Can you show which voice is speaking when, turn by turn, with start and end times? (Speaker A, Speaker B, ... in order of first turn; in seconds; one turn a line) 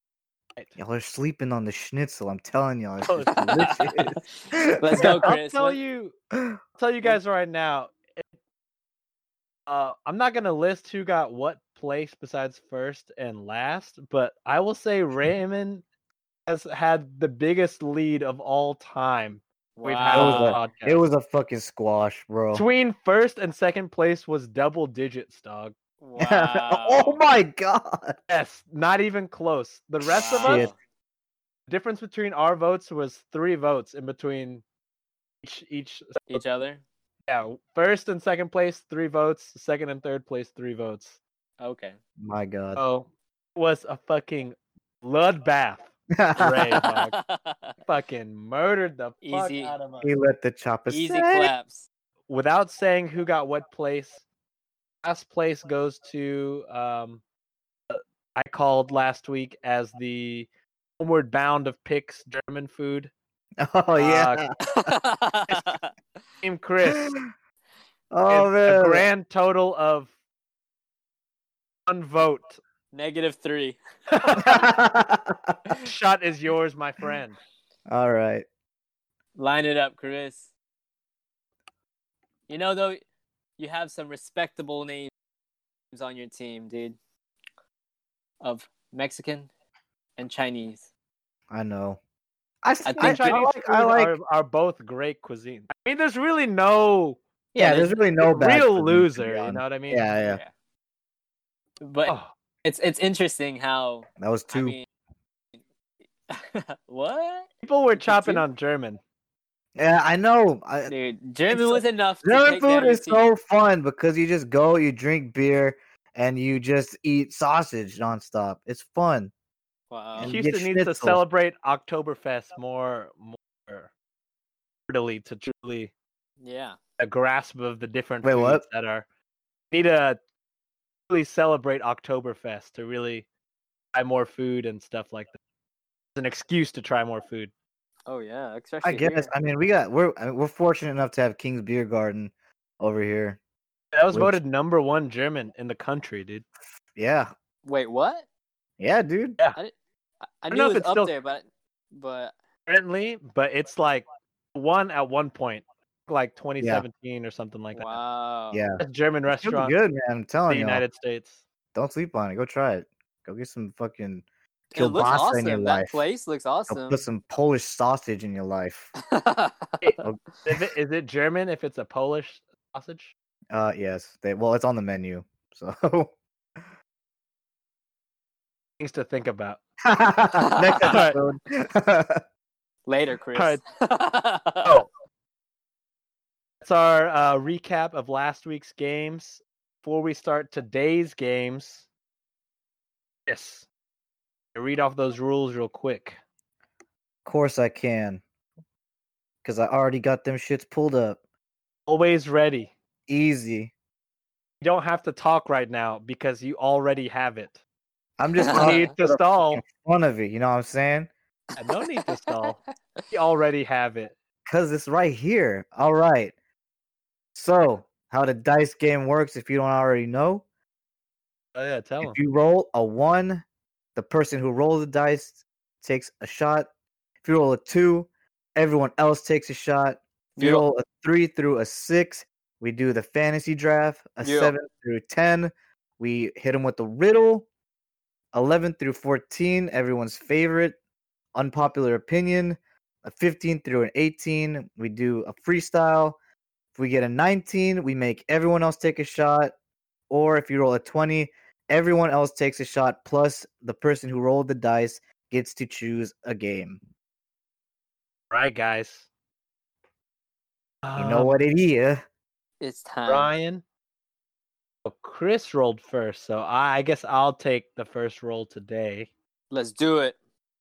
Speaker A: 0.8-5.3
Speaker B: 3.0-3.8
Speaker C: 3.5-5.8
Speaker B: 5.0-6.1
Speaker B: 6.8-8.2
Speaker B: 9.7-15.8
Speaker B: 16.5-21.0
Speaker C: 19.8-20.7
Speaker A: 20.1-22.6
Speaker B: 22.5-25.7
Speaker C: 26.0-27.2
Speaker A: 26.2-28.2
Speaker B: 28.3-30.7
Speaker C: 30.1-30.8
Speaker A: 30.4-30.7
Speaker B: 31.7-34.6
Speaker B: 35.4-36.4
Speaker C: 36.3-36.8
Speaker B: 37.3-41.2
Speaker C: 41.6-42.0
Speaker A: 42.2-42.8
Speaker B: 42.8-47.1
Speaker A: 46.1-46.8
Speaker C: 46.8-47.7
Speaker B: 47.8-50.1
Speaker C: 49.2-49.7
Speaker A: 50.0-51.5
Speaker C: 50.9-51.9
Speaker B: 52.3-54.2
Speaker B: 55.0-57.2
Speaker B: 57.9-60.5
Speaker B: 61.0-63.1
Speaker A: 63.6-64.9
Speaker B: 64.0-64.4
Speaker C: 64.6-65.9
Speaker B: 66.4-67.1
Speaker A: 66.9-67.2
Speaker A: 68.1-69.1
Speaker B: 68.3-70.1
Speaker B: 71.9-72.6
Speaker C: 72.9-73.8
Speaker B: 74.1-74.6
Speaker A: 74.4-75.6
Speaker B: 75.8-77.4
Speaker A: 77.9-78.5
Speaker C: 79.4-80.5
Speaker C: 82.5-83.0
Speaker C: 83.6-85.1
Speaker C: 85.9-87.0
Speaker C: 88.4-89.5
Speaker C: 90.2-90.9
Speaker A: 91.5-92.0
Speaker A: 92.6-94.2
Speaker C: 92.8-93.4
Speaker B: 93.0-97.2
Speaker C: 97.5-98.0
Speaker A: 97.6-100.4
Speaker B: 98.2-100.1
Speaker C: 100.2-100.5
Speaker C: 101.8-102.1
Speaker C: 102.6-104.8
Speaker A: 104.2-104.8
Speaker C: 106.3-108.4
Speaker B: 107.6-109.0
Speaker A: 109.8-110.9
Speaker C: 110.9-113.2
Speaker A: 111.5-119.3
Speaker C: 119.9-120.3
Speaker A: 120.2-121.2
Speaker B: 120.2-123.9
Speaker B: 124.9-125.9
Speaker C: 126.4-126.8
Speaker B: 127.0-129.0
Speaker A: 128.2-128.6
Speaker B: 129.7-130.2
Speaker B: 131.1-133.2
Speaker B: 133.9-135.4
Speaker B: 136.2-137.5
Speaker C: 138.1-139.3
Speaker A: 138.8-143.4
Speaker B: 143.9-146.4
Speaker A: 144.1-144.4
Speaker A: 146.9-147.3
Speaker C: 147.6-148.2
Speaker A: 148.8-149.4
Speaker C: 150.4-152.3
Speaker B: 150.5-151.1
Speaker B: 152.7-158.0
Speaker A: 156.6-156.8
Speaker C: 157.7-158.6
Speaker A: 158.5-160.8
Speaker B: 158.8-159.7
Speaker B: 160.5-161.4
Speaker A: 161.7-166.0
Speaker C: 164.7-167.0
Speaker A: 166.7-168.9
Speaker C: 169.1-169.8
Speaker B: 169.8-173.1
Speaker A: 173.5-176.1
Speaker B: 178.8-179.6
Speaker A: 179.8-182.2
Speaker C: 180.4-180.9
Speaker B: 180.8-181.2
Speaker C: 182.8-184.7
Speaker B: 183.3-183.6
Speaker B: 186.6-191.8
Speaker B: 193.3-193.7
Speaker B: 194.5-196.2
Speaker A: 197.2-198.2
Speaker A: 199.4-201.2
Speaker B: 201.9-202.7
Speaker A: 203.1-203.7
Speaker B: 204.6-207.6
Speaker A: 208.2-211.1
Speaker C: 208.4-208.9
Speaker B: 208.5-209.6
Speaker C: 211.5-212.5
Speaker B: 211.6-214.1
Speaker A: 214.4-216.3
Speaker A: 217.3-220.4
Speaker B: 221.5-222.2
Speaker A: 222.0-223.4
Speaker A: 223.9-226.7
Speaker A: 227.2-237.5
Speaker C: 230.4-230.7
Speaker C: 234.2-234.5
Speaker A: 238.3-240.8
Speaker A: 241.3-246.2
Speaker A: 246.7-249.5
Speaker A: 250.1-256.8
Speaker B: 258.3-259.1
Speaker B: 260.8-261.4
Speaker A: 260.9-262.0
Speaker C: 262.6-263.3
Speaker B: 263.1-263.6
Speaker B: 264.8-269.1
Speaker C: 269.5-270.1